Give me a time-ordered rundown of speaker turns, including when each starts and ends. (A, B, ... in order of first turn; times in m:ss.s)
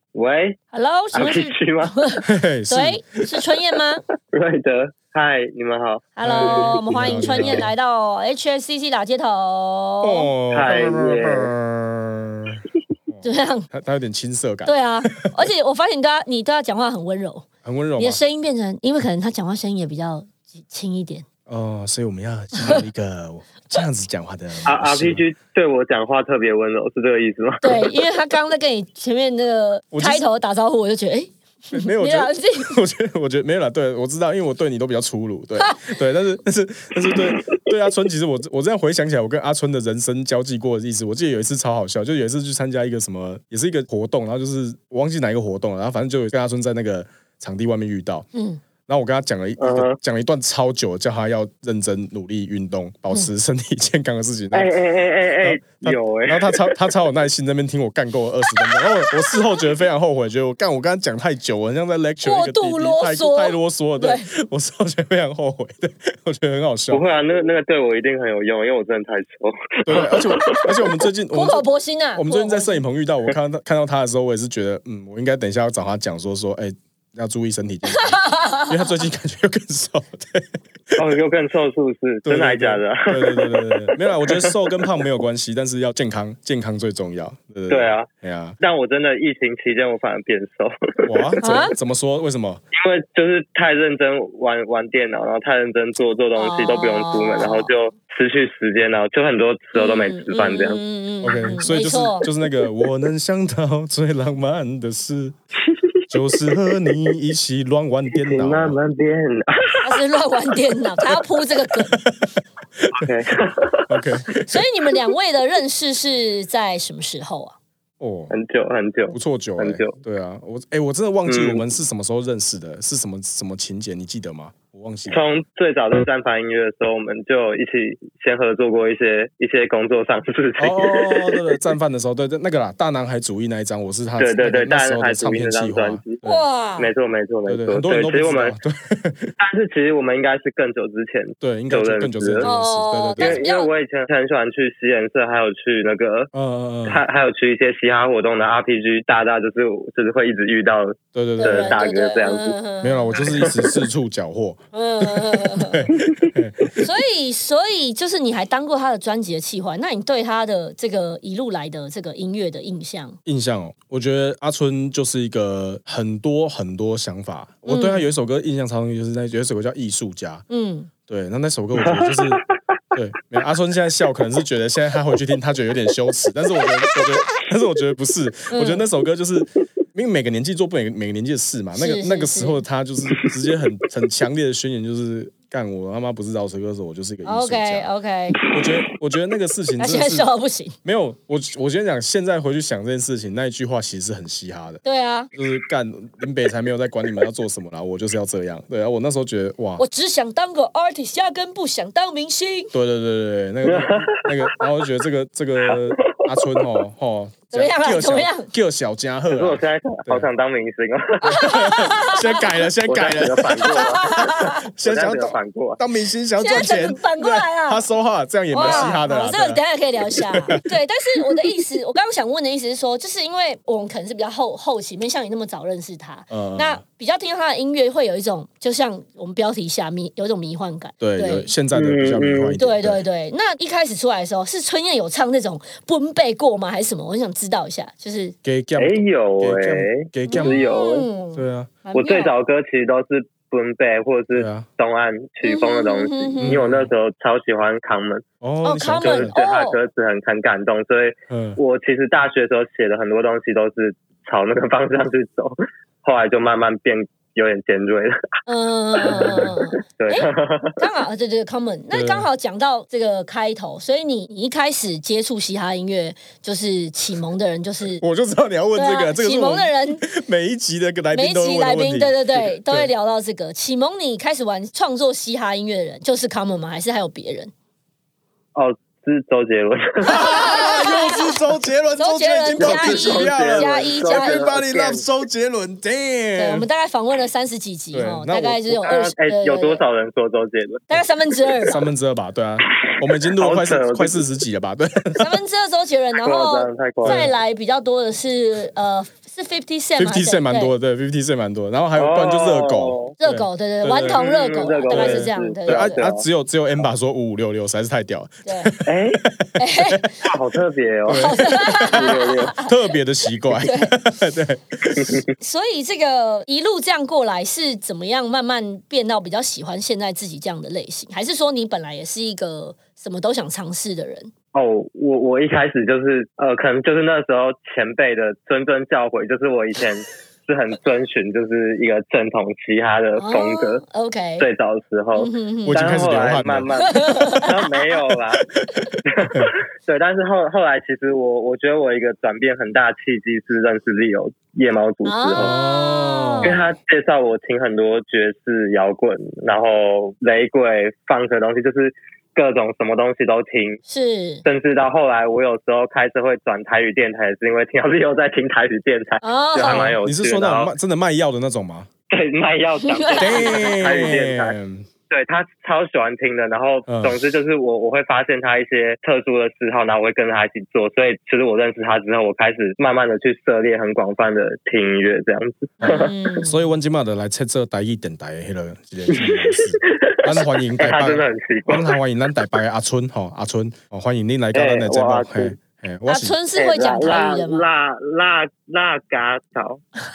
0:00.2-0:00.6 A
0:00.7-0:04.0 B
0:01.1-0:02.0 A
0:02.2-0:03.0 C
0:04.3-0:07.6 A
0:06.2-0:10.3 B
0:06.2-0:07.7 C
0:10.0-0:15.4 C
0:10.5-0:11.5 A
0:13.2-0:13.7 B
0:14.6-0:21.2 B
0:17.6-0:18.2 C
0:21.5-0:25.2 C
0:24.6-0:27.9 A
0:27.6-0:32.8 B
0:29.9-0:30.2 C
0:31.7-0:48.3 C
0:48.3-0:48.6 B
0:48.9-0:54.7 C
0:49.6-0:50.0 A
0:54.5-0:56.8 A
0:55.4-1:07.0 C
1:02.2-1:04.3 B
1:06.9-1:10.7 A
1:09.9-1:21.0 C
1:11.3-1:12.8 B
1:18.0-1:18.7 B
1:21.0-1:24.6 A
1:22.2-1:28.6 C
1:27.7-1:28.1 A
1:28.6-1:31.3 A
1:31.0-1:32.6 C
1:31.4-1:31.7 B
1:32.7-1:40.8 A
1:36.4-1:37.7 B
1:39.8-1:42.3 B
1:41.2-1:45.4 C
1:45.7-1:45.9 A
1:46.1-1:48.8 C
1:48.1-1:49.8 A
1:49.8-1:52.0 B
1:51.9-1:53.1 C
1:52.9-1:53.9 A
1:53.9-1:54.6 C
1:54.5-1:57.6 B
1:58.0-1:58.3 C
1:58.3-2:00.0 A
1:59.1-2:05.2 C
2:01.3-2:01.6 A
2:05.1-2:11.6 A
2:10.6-2:16.4 C
2:14.2-2:16.2 A
2:16.2-2:16.9 B
2:16.8-2:18.6 A
2:17.5-2:19.3 C
2:19.4-2:22.5 A
2:21.4-2:23.4 C
2:22.4-2:23.7 B
2:23.2-2:26.3 A
2:26.3-2:27.0 C
2:26.8-2:32.6 A
2:31.2-2:31.8 C
2:31.4-2:33.5 B
2:32.8-2:36.7 C
2:33.3-2:33.7 A
2:34.7-2:35.9 B
2:36.8-2:43.2 B
2:43.2-2:50.4 C
2:47.7-2:48.1 B
2:50.5-2:50.9 B
2:51.1-3:07.9 C
2:51.8-2:52.5 A
2:58.5-2:58.8 B
3:01.8-3:02.6 B
3:07.2-3:08.4 B
3:08.5-3:10.3 C
3:09.8-3:10.8 B
3:10.8-3:14.8 C
3:14.8-3:15.3 B
3:15.3-3:19.8 C
3:19.8-3:22.7 B
3:22.7-3:30.3 C
3:23.6-3:24.6 A
3:25.6-3:26.7 A
3:27.5-3:28.5 B
3:29.3-3:31.5 A
3:31.2-3:32.4 B
3:31.3-3:40.6 C
3:32.8-3:35.8 A
3:33.7-3:34.7 B
3:36.4-3:37.8 B
3:38.5-3:51.5 B
3:38.6-3:39.0 A
3:46.3-3:46.8 C
3:51.0-3:53.0 C
3:51.7-3:52.6 A
3:52.6-3:58.4 B
3:58.4-4:00.6 C
3:58.8-4:01.1 A
4:00.3-4:02.3 B
4:01.3-4:01.7 C
4:01.9-4:08.2 A
4:04.3-4:04.7 C
4:05.4-4:06.6 B
4:06.4-4:06.9 C
4:08.4-4:09.3 C
4:08.6-4:09.8 B
4:09.0-4:18.2 A
4:11.3-4:11.6 C
4:18.5-4:28.0 B
4:19.0-4:20.8 A
4:21.9-4:22.3 C
4:28.0-4:32.9 C
4:28.8-4:30.0 B
4:31.1-4:37.5 B
4:38.6-4:40.4 A
4:40.1-4:41.4 B
4:40.1-4:46.7 C
4:42.0-4:44.5 B
4:42.6-4:45.0 A
4:46.4-4:49.8 B
4:47.9-4:48.8 C
4:48.8-4:50.9 A
4:50.9-4:51.8 B
4:51.6-4:55.4 C
4:52.7-4:54.2 A
4:55.2-5:00.7 B
4:56.2-4:57.3 A
4:57.0-4:57.3 C
5:00.0-5:04.2 C
5:02.0-5:03.1 A
5:03.2-5:06.0 B
5:04.1-5:06.2 A
5:04.9-5:10.1 C
5:08.5-5:08.7 B
5:08.8-5:09.2 A
5:09.6-5:10.2 B
5:10.2-5:12.6 A
5:11.1-5:15.2 C
5:11.1-5:12.7 B
5:13.6-5:13.9 B
5:14.9-5:15.2 A
5:15.4-5:24.3 B
5:24.5-5:33.8 A
5:33.2-5:34.5 B
5:34.4-5:38.4 A
5:35.2-5:35.8 B
5:35.6-5:36.7 C
5:36.8-5:37.7 B
5:39.1-5:45.6 A
5:45.0-5:46.6 B
5:45.4-5:46.7 C
5:46.4-5:53.8 A
5:53.9-5:54.4 B
5:54.4-6:00.7 A
5:59.2-6:00.0 B
5:59.6-6:01.9 C
6:02.1-6:04.6 A
6:02.8-6:03.8 B
6:03.2-6:04.9 C
6:05.1-6:16.1 A
6:06.9-6:07.2 C
6:15.8-6:26.4 C
6:15.8-6:16.6 B
6:19.1-6:22.0 A
6:24.5-6:25.6 A
6:26.1-6:27.6 B
6:26.6-6:29.8 A